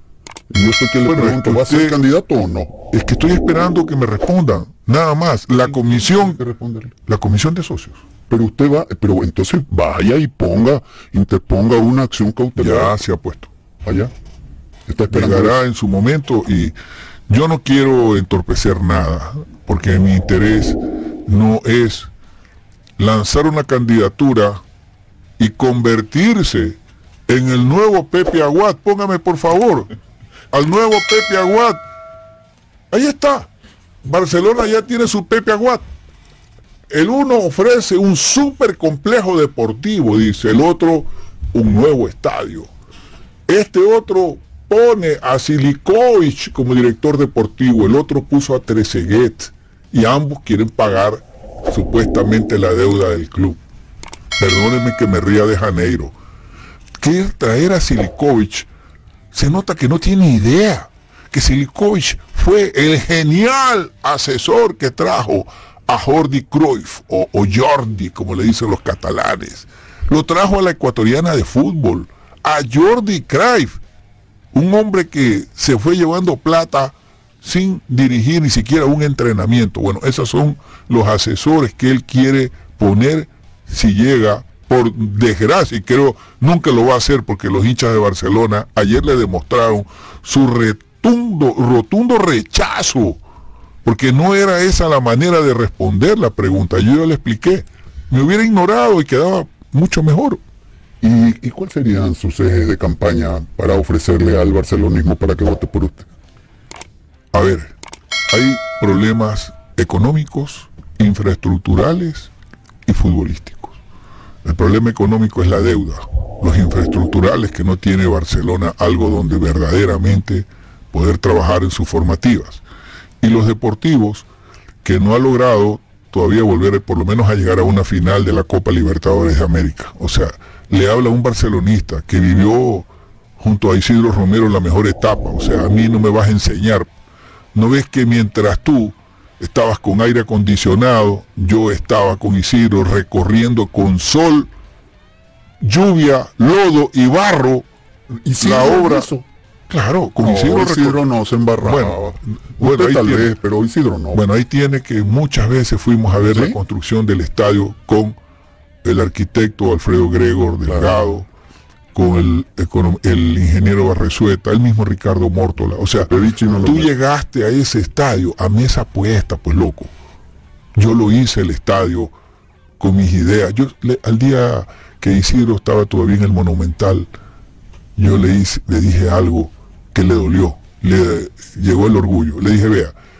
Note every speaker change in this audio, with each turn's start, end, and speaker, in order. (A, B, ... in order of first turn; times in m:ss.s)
0:00.5-0:02.7 A
0:01.0-0:02.0 B
0:02.9-0:06.4 B
0:05.9-0:06.9 A
0:07.1-0:08.0 B
0:08.3-0:13.0 A
0:12.6-0:13.5 B
0:13.8-0:14.1 A
0:14.9-0:15.6 A
0:15.1-0:16.7 B
0:17.3-0:22.1 B
0:23.0-0:24.6 B
0:25.4-0:29.9 B
0:30.5-0:31.8 B
0:32.9-0:33.5 B
0:34.0-0:35.8 B
0:36.9-0:42.7 B
0:43.5-0:53.6 B
0:54.4-0:56.1 B
0:57.0-0:58.7 B
0:59.3-1:13.8 B
1:14.5-1:33.2 B
1:33.8-1:40.4 B
1:41.0-1:46.1 A
1:47.3-1:47.7 B
1:48.3-1:52.3 B
1:52.8-1:53.8 B
1:54.4-2:02.6 B
2:03.2-2:04.3 B
2:04.8-2:12.9 B
2:13.4-2:16.9 B
2:17.5-2:24.5 B
2:25.6-2:27.7 B
2:28.2-2:29.2 A
2:28.4-2:29.1 B
2:29.7-2:31.0 B
2:30.2-2:34.2 A
2:31.6-2:33.3 B
2:34.1-2:38.2 B
2:36.3-2:36.6 A
2:38.8-2:41.3 B
2:41.9-2:49.9 B
2:46.0-2:46.9 A
2:50.8-2:52.1 B
2:52.8-2:57.1 B
2:58.0-3:02.9 B